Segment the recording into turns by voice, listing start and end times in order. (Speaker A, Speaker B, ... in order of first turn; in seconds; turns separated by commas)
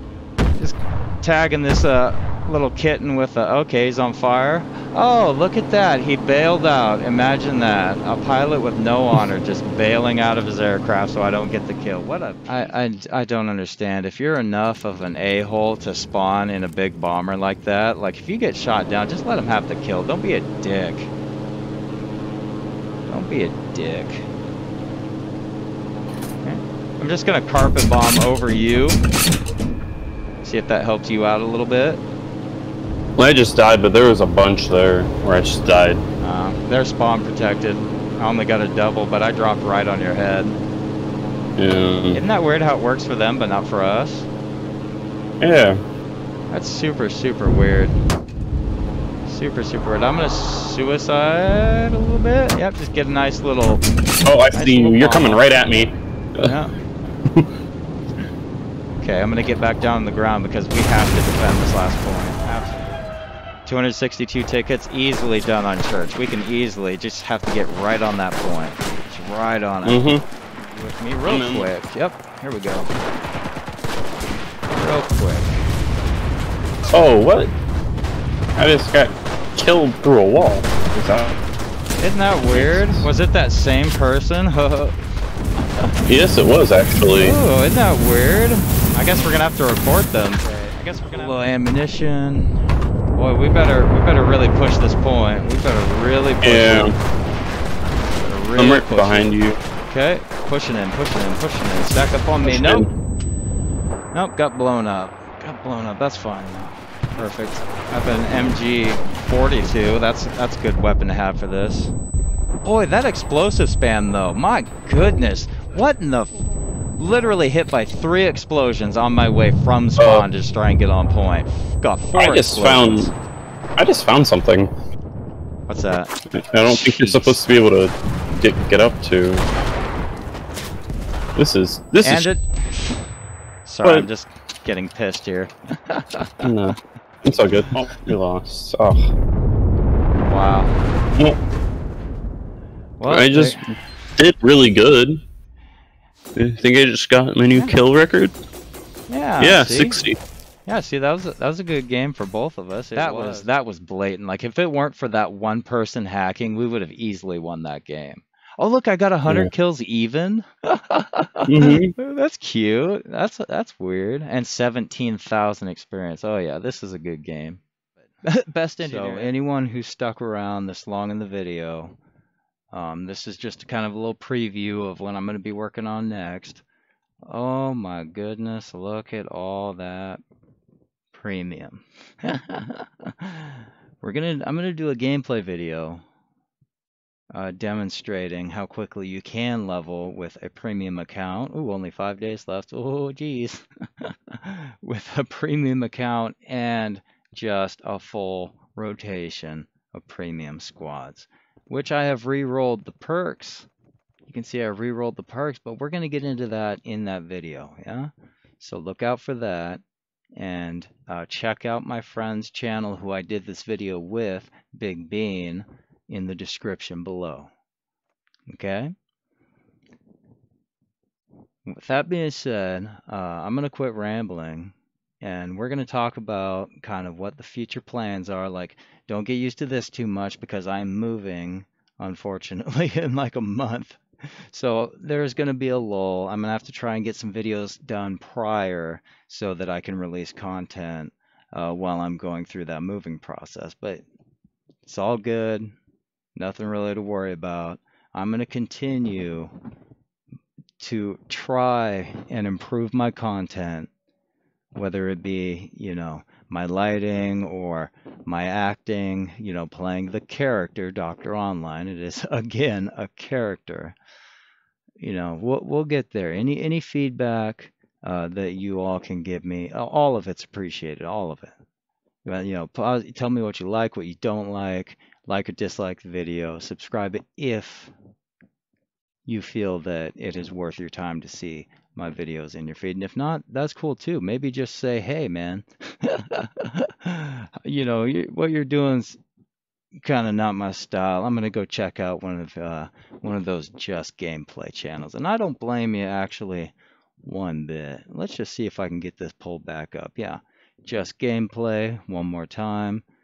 Speaker A: 0.6-21.1, Speaker A: 23.1-24.2, Speaker A: 26.4-29.0, Speaker A: 30.4-32.0, Speaker B: 33.2-36.0, Speaker A: 36.2-40.6, Speaker B: 41.6-42.2, Speaker A: 42.1-44.3, Speaker B: 45.4-45.8, Speaker A: 46.5-48.0, Speaker A: 49.2-53.8, Speaker B: 54.2-56.5, Speaker A: 54.5-55.4, Speaker A: 56.4-56.8, Speaker A: 59.0-63.0, Speaker A: 63.6-72.9, Speaker B: 69.8-70.2, Speaker B: 71.3-71.7, Speaker A: 74.8-75.5, Speaker B: 76.9-77.5, Speaker B: 78.6-81.4, Speaker A: 82.0-85.0, Speaker B: 82.5-83.1, Speaker B: 86.0-87.4, Speaker A: 87.2-92.5, Speaker A: 93.1-96.9, Speaker B: 96.4-96.9, Speaker A: 98.2-99.3, Speaker B: 98.5-99.6, Speaker A: 99.9-102.9, Speaker B: 102.4-102.9, Speaker A: 104.1-111.9, Speaker A: 112.6-116.4, Speaker A: 117.0-123.1, Speaker B: 120.0-120.3, Speaker B: 122.2-123.1, Speaker B: 123.8-124.7, Speaker A: 125.7-126.1, Speaker B: 126.3-129.4, Speaker A: 126.6-127.4, Speaker B: 131.4-132.3, Speaker A: 132.0-133.0, Speaker A: 133.6-136.4, Speaker B: 136.4-139.1, Speaker A: 140.2-140.8, Speaker A: 143.0-143.7, Speaker B: 143.1-143.6, Speaker B: 144.2-145.2, Speaker B: 146.4-148.3, Speaker A: 147.5-147.8, Speaker A: 149.1-150.0, Speaker B: 149.4-150.2, Speaker A: 150.7-167.6, Speaker B: 153.0-153.5, Speaker B: 161.5-161.9, Speaker A: 168.2-171.9, Speaker B: 168.8-169.3, Speaker A: 172.7-176.6, Speaker A: 177.2-180.2, Speaker A: 181.1-186.0, Speaker A: 187.3-203.7, Speaker A: 204.3-209.8, Speaker A: 210.4-217.5, Speaker A: 218.5-218.9, Speaker A: 221.7-244.0, Speaker A: 244.9-245.7, Speaker A: 246.4-249.5, Speaker A: 250.8-253.9, Speaker A: 254.7-263.9, Speaker A: 265.0-271.5, Speaker A: 272.2-277.9, Speaker A: 279.2-289.2, Speaker A: 290.0-303.0